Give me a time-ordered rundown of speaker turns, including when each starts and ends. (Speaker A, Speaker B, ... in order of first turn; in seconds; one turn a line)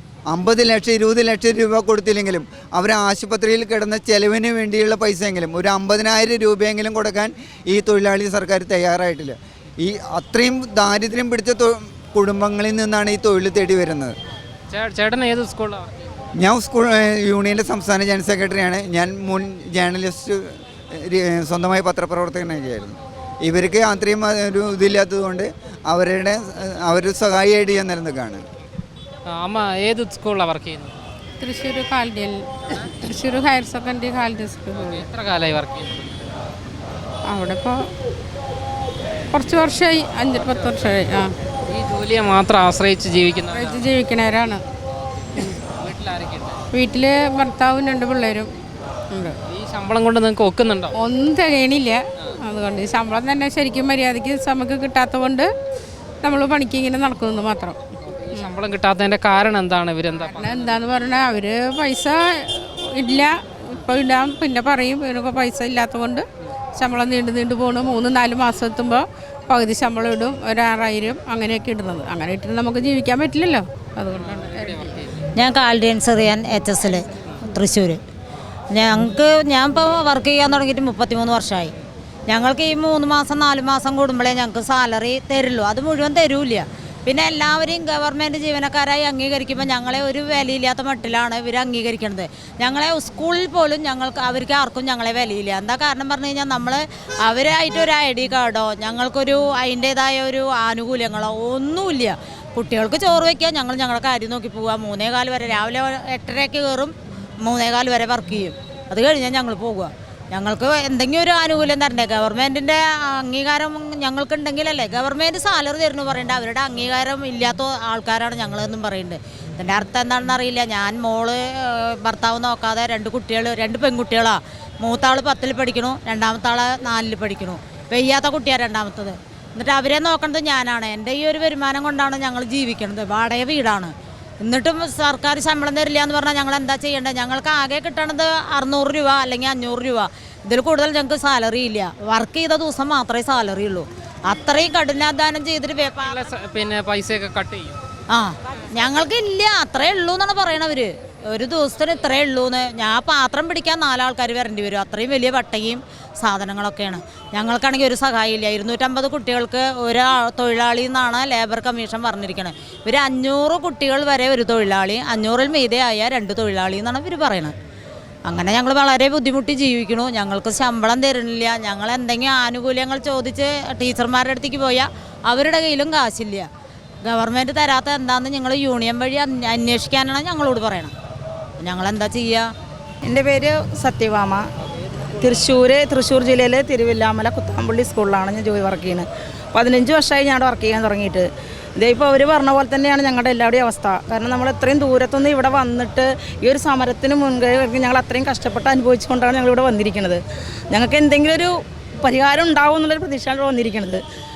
Speaker A: 0.3-14.1
Speaker B: 14.7-16.2
Speaker A: 16.4-28.4
Speaker B: 29.3-31.0
Speaker C: 31.4-35.0
Speaker B: 34.7-36.2
Speaker C: 37.2-37.9
Speaker C: 39.3-41.4
Speaker B: 41.7-43.9
Speaker C: 43.5-44.6
Speaker B: 45.2-46.6
Speaker C: 46.7-48.5
Speaker C: 49.1-49.4
Speaker B: 49.5-50.9
Speaker C: 50.9-55.5
Speaker C: 56.2-57.8
Speaker B: 58.1-60.7
Speaker C: 60.2-74.8
Speaker B: 74.1-75.1
Speaker D: 75.3-78.0
Speaker D: 78.7-81.7
Speaker D: 82.3-106.9
Speaker D: 107.4-133.9
Speaker D: 134.4-146.2
Speaker B: 146.0-147.8
Speaker D: 148.1-167.5
Speaker D: 168.3-176.5
Speaker D: 177.0-180.9
Speaker D: 181.6-182.5
Speaker E: 183.0-184.4
Speaker E: 185.2-191.3
Speaker E: 191.8-204.0